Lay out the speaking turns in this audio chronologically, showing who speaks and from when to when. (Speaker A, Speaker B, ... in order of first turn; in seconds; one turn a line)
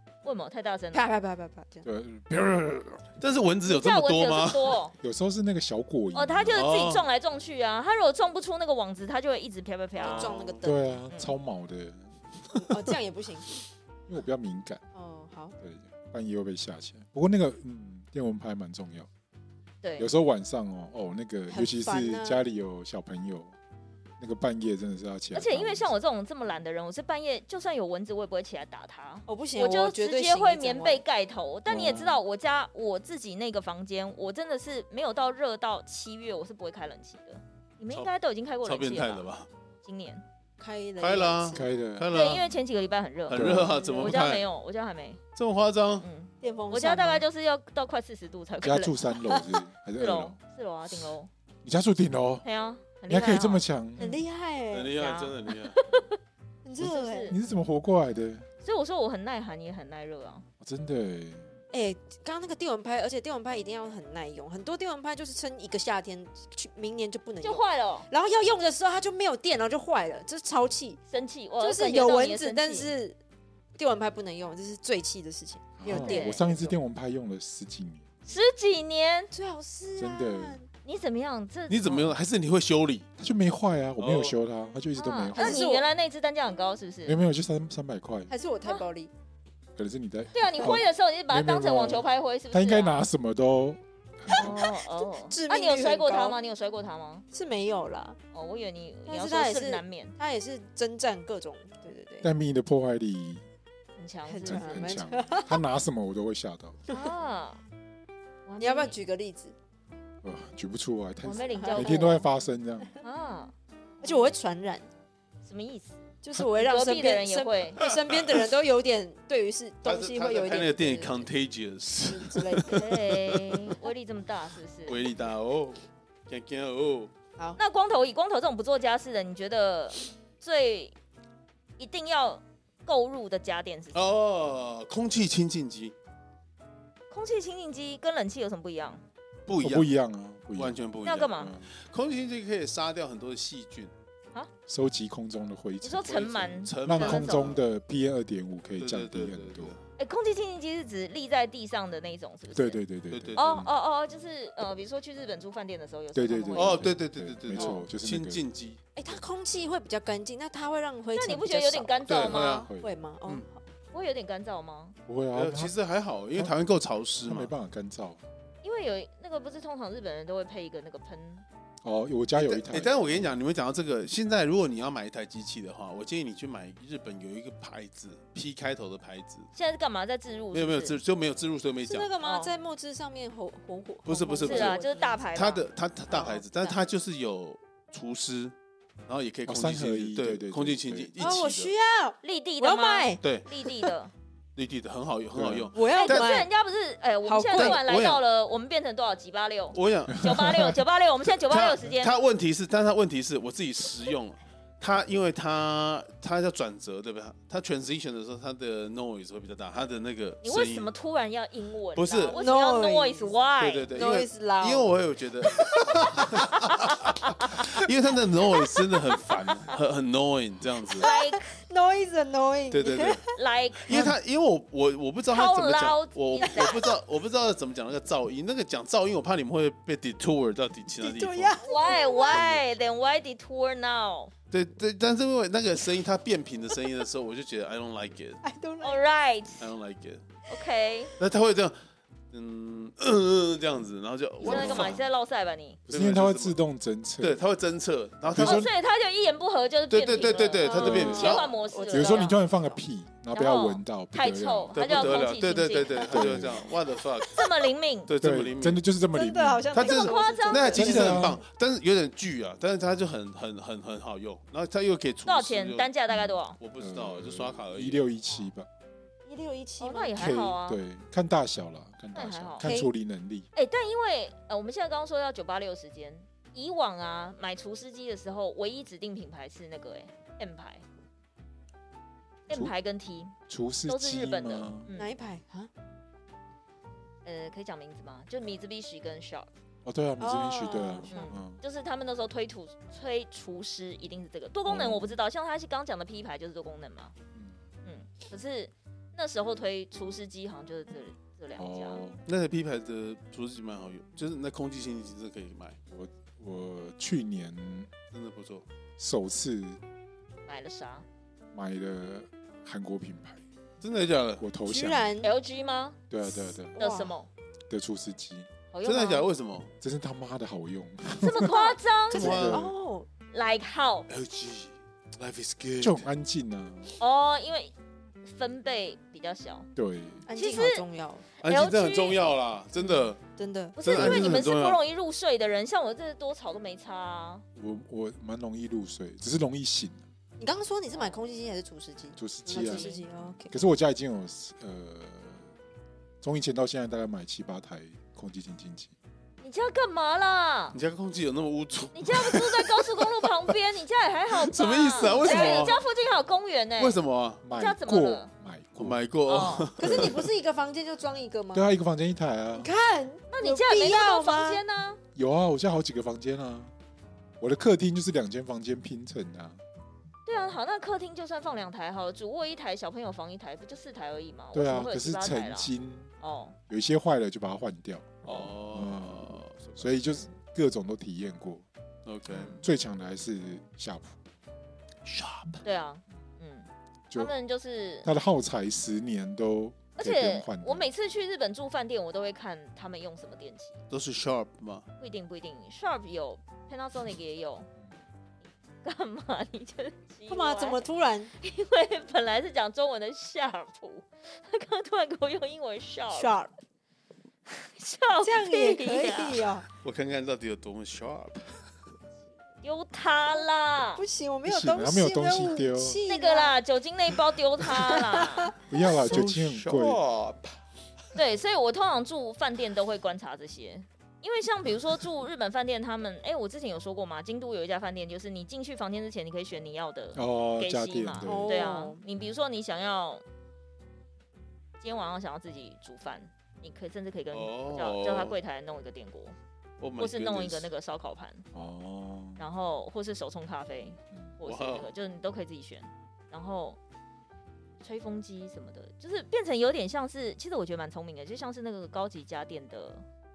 Speaker A: 0.2-1.0
Speaker B: 0.9-1.9
Speaker C: 1.8-3.0
Speaker D: 3.2-4.8
Speaker A: 3.6-4.9
Speaker C: 4.9-6.6
Speaker A: 6.1-10.4
Speaker D: 6.5-7.0
Speaker D: 9.9-10.7
Speaker B: 10.0-10.8
Speaker C: 10.6-12.7
Speaker B: 12.5-13.5
Speaker C: 14.1-14.8
Speaker B: 14.9-15.6
Speaker C: 15.6-19.1
Speaker A: 19.8-20.1
Speaker C: 20.0-23.5
Speaker B: 21.5-22.4
Speaker C: 24.2-25.9
Speaker A: 25.3-39.3
Speaker B: 29.3-31.0
Speaker C: 31.7-32.2
Speaker D: 38.6-39.5
Speaker A: 39.8-40.2
Speaker B: 40.6-41.6
Speaker D: 41.0-42.5
Speaker C: 41.5-42.1
Speaker A: 42.1-45.2
Speaker D: 43.3-44.4
Speaker C: 43.3-43.7
Speaker B: 43.7-44.1
Speaker D: 45.4-46.0
Speaker A: 46.0-49.2
Speaker B: 46.4-47.2
Speaker C: 48.6-50.4
Speaker A: 50.0-51.3
Speaker C: 51.6-52.4
Speaker A: 52.4-54.2
Speaker C: 53.1-54.1
Speaker B: 54.0-54.9
Speaker D: 54.7-55.8
Speaker A: 54.9-56.2
Speaker B: 56.6-57.3
Speaker A: 56.8-57.4
Speaker C: 57.3-58.5
Speaker A: 58.6-60.5
Speaker C: 60.6-61.5
Speaker B: 61.7-71.0
Speaker A: 67.4-68.1
Speaker A: 71.1-72.9
Speaker B: 71.6-73.2
Speaker B: 73.8-76.8
Speaker C: 75.8-78.1
Speaker A: 75.9-76.4
Speaker A: 78.2-79.3
Speaker B: 79.3-80.7
Speaker C: 80.0-80.6
Speaker A: 80.8-82.2
Speaker D: 81.7-83.1
Speaker C: 83.2-85.6
Speaker D: 84.0-84.3
Speaker A: 85.0-87.2
Speaker B: 85.3-85.9
Speaker C: 87.0-88.3
Speaker B: 88.3-89.1
Speaker C: 89.8-94.7
Speaker A: 90.3-93.0
Speaker A: 94.3-97.2
Speaker B: 95.0-96.4
Speaker B: 97.3-98.2
Speaker A: 98.3-100.1
Speaker B: 99.1-102.3
Speaker C: 102.2-103.4
Speaker A: 104.0-104.9
Speaker B: 104.3-105.6
Speaker C: 104.4-106.8
Speaker A: 106.9-107.6
Speaker A: 108.5-109.0
Speaker B: 108.6-109.5
Speaker C: 110.2-113.0
Speaker A: 111.2-112.3
Speaker B: 111.5-112.2
Speaker A: 113.0-113.5
Speaker B: 114.0-114.9
Speaker A: 114.0-114.3
Speaker A: 115.4-117.8
Speaker B: 116.2-121.3
Speaker D: 117.8-118.4
Speaker D: 119.8-123.7
Speaker B: 122.0-122.9
Speaker A: 122.7-125.0
Speaker D: 124.9-127.1
Speaker A: 127.6-130.9
Speaker A: 131.8-134.1
Speaker D: 133.9-135.9
Speaker A: 137.1-139.0
Speaker D: 139.5-139.9
Speaker C: 139.6-141.7
Speaker D: 140.5-143.9
Speaker A: 141.0-141.5
Speaker C: 144.7-146.2
Speaker A: 145.8-147.6
Speaker D: 146.0-147.6
Speaker C: 146.8-149.7
Speaker D: 148.8-149.8
Speaker A: 150.0-152.8
Speaker C: 152.5-153.7
Speaker D: 153.1-153.4
Speaker A: 153.3-156.9
Speaker C: 156.1-158.4
Speaker D: 156.5-158.8
Speaker B: 158.9-163.6
Speaker A: 161.1-162.6
Speaker D: 162.1-162.7
Speaker C: 162.5-162.9
Speaker A: 163.9-164.9
Speaker C: 165.1-165.7
Speaker D: 165.3-167.5
Speaker C: 167.2-168.2
Speaker A: 168.6-171.4
Speaker C: 171.8-173.3
Speaker D: 172.3-179.5
Speaker A: 179.5-181.0
Speaker D: 180.5-182.1
Speaker B: 181.9-185.5
Speaker A: 182.2-182.5
Speaker D: 184.1-188.5
Speaker A: 184.4-185.6
Speaker B: 186.1-186.8
Speaker D: 189.1-191.7
Speaker C: 189.4-191.4
Speaker B: 191.2-193.9
Speaker A: 192.2-194.1
Speaker D: 193.2-193.4
Speaker D: 194.6-196.3
Speaker C: 195.3-195.7
Speaker B: 195.7-196.5
Speaker A: 195.9-202.1
Speaker B: 197.2-197.8
Speaker D: 197.5-198.2
Speaker D: 199.7-200.3
Speaker C: 200.2-200.8
Speaker D: 201.4-210.9
Speaker A: 210.4-213.9
Speaker D: 211.9-212.4
Speaker B: 212.3-213.3
Speaker D: 213.6-221.1
Speaker B: 213.9-214.9
Speaker B: 215.5-216.6
Speaker B: 218.5-219.2
Speaker B: 220.9-223.3
Speaker A: 221.0-221.4
Speaker D: 222.7-231.6
Speaker A: 223.3-224.1
Speaker C: 223.9-224.2
Speaker A: 225.3-226.9
Speaker B: 226.4-226.8
Speaker B: 231.0-232.6
Speaker A: 231.6-234.3
Speaker D: 234.5-238.4
Speaker B: 238.4-239.0
Speaker A: 238.8-239.7
Speaker D: 239.6-240.2
Speaker A: 240.5-241.1
Speaker D: 241.2-241.8
Speaker D: 242.3-245.0
Speaker A: 244.4-245.8
Speaker C: 244.4-245.0
Speaker B: 244.5-244.9
Speaker C: 245.9-247.4
Speaker D: 245.9-246.6
Speaker D: 247.2-248.7
Speaker C: 248.3-248.7
Speaker A: 248.4-252.4
Speaker D: 249.9-251.5
Speaker B: 250.6-252.8
Speaker C: 250.7-255.2
Speaker A: 253.3-256.4
Speaker D: 254.7-257.5
Speaker C: 256.1-256.7
Speaker A: 257.2-258.1
Speaker D: 258.1-258.8
Speaker C: 258.1-259.7
Speaker B: 259.1-261.3
Speaker D: 259.7-265.9
Speaker A: 259.8-261.2
Speaker C: 260.7-261.4
Speaker A: 265.2-266.6
Speaker C: 266.1-268.7
Speaker D: 266.6-268.0
Speaker B: 269.2-270.3
Speaker A: 269.8-270.8
Speaker C: 270.1-273.5
Speaker A: 272.1-272.7
Speaker B: 272.6-272.9
Speaker A: 273.5-280.8
Speaker A: 282.5-283.4
Speaker C: 283.5-284.9
Speaker A: 283.9-285.1
Speaker B: 284.9-285.7
Speaker A: 287.2-289.5
Speaker C: 289.8-291.6
Speaker B: 290.2-291.1
Speaker A: 291.1-297.1
Speaker C: 294.7-295.1
Speaker C: 297.3-297.6
Speaker A: 297.8-302.0
Speaker C: 301.6-302.2
Speaker D: 302.2-305.8
Speaker C: 305.9-307.9
Speaker D: 308.1-308.6
Speaker C: 309.0-309.8
Speaker A: 310.5-311.1
Speaker C: 311.5-313.4
Speaker D: 313.8-314.4
Speaker C: 314.4-315.1
Speaker B: 314.6-315.3
Speaker A: 315.2-316.0
Speaker C: 316.1-316.8
Speaker B: 316.2-317.1
Speaker A: 316.8-317.3
Speaker C: 317.7-318.5
Speaker A: 318.7-319.3
Speaker D: 318.8-319.7
Speaker C: 319.8-322.7
Speaker A: 321.2-322.4
Speaker B: 321.4-323.1
Speaker D: 322.1-322.7
Speaker A: 323.3-324.1
Speaker D: 324.1-326.1
Speaker C: 325.8-327.0
Speaker A: 327.0-329.7
Speaker C: 329.7-330.3
Speaker B: 330.3-331.2
Speaker A: 330.4-332.9
Speaker D: 331.4-333.2
Speaker B: 333.4-334.4
Speaker A: 333.8-337.4
Speaker D: 333.8-334.8
Speaker C: 337.6-340.0
Speaker B: 340.4-343.6
Speaker A: 340.9-341.2
Speaker C: 342.2-342.9
Speaker A: 342.5-343.0
Speaker C: 343.5-345.4
Speaker C: 346.2-348.9
Speaker A: 349.4-350.8
Speaker D: 350.7-353.5
Speaker A: 351.9-357.0
Speaker D: 354.3-355.8
Speaker B: 355.0-355.8
Speaker D: 356.8-357.4
Speaker C: 357.4-359.0
Speaker A: 357.5-358.3
Speaker D: 358.8-360.3
Speaker A: 359.3-359.7
Speaker B: 359.8-361.7
Speaker C: 359.8-360.2
Speaker C: 361.5-362.7
Speaker B: 362.5-364.6
Speaker A: 363.3-365.0
Speaker C: 365.1-366.7
Speaker C: 367.4-369.6
Speaker A: 370.2-376.6
Speaker C: 374.5-376.1
Speaker C: 376.7-381.6
Speaker D: 378.2-380.0
Speaker D: 382.1-382.6
Speaker A: 382.3-382.6
Speaker C: 382.5-384.2
Speaker D: 385.1-385.6
Speaker A: 385.6-388.1
Speaker C: 388.0-390.9
Speaker A: 390.0-393.8
Speaker D: 393.9-394.9
Speaker A: 395.0-397.7
Speaker A: 398.8-400.8
Speaker B: 400.3-401.3
Speaker A: 401.4-406.3
Speaker B: 406.1-406.5
Speaker A: 407.5-409.5
Speaker B: 408.2-409.6
Speaker D: 409.8-411.6
Speaker A: 412.6-414.0
Speaker B: 413.9-416.6
Speaker C: 414.4-416.0
Speaker A: 416.1-418.5
Speaker B: 417.7-418.8
Speaker C: 418.7-420.0
Speaker D: 418.8-420.6
Speaker A: 421.1-433.2
Speaker C: 430.1-431.7
Speaker B: 431.2-432.0
Speaker A: 434.8-439.3
Speaker D: 437.3-438.4
Speaker D: 439.8-440.7
Speaker A: 440.0-441.4
Speaker C: 441.5-442.4
Speaker A: 442.4-446.8
Speaker D: 444.4-444.9
Speaker A: 447.8-453.0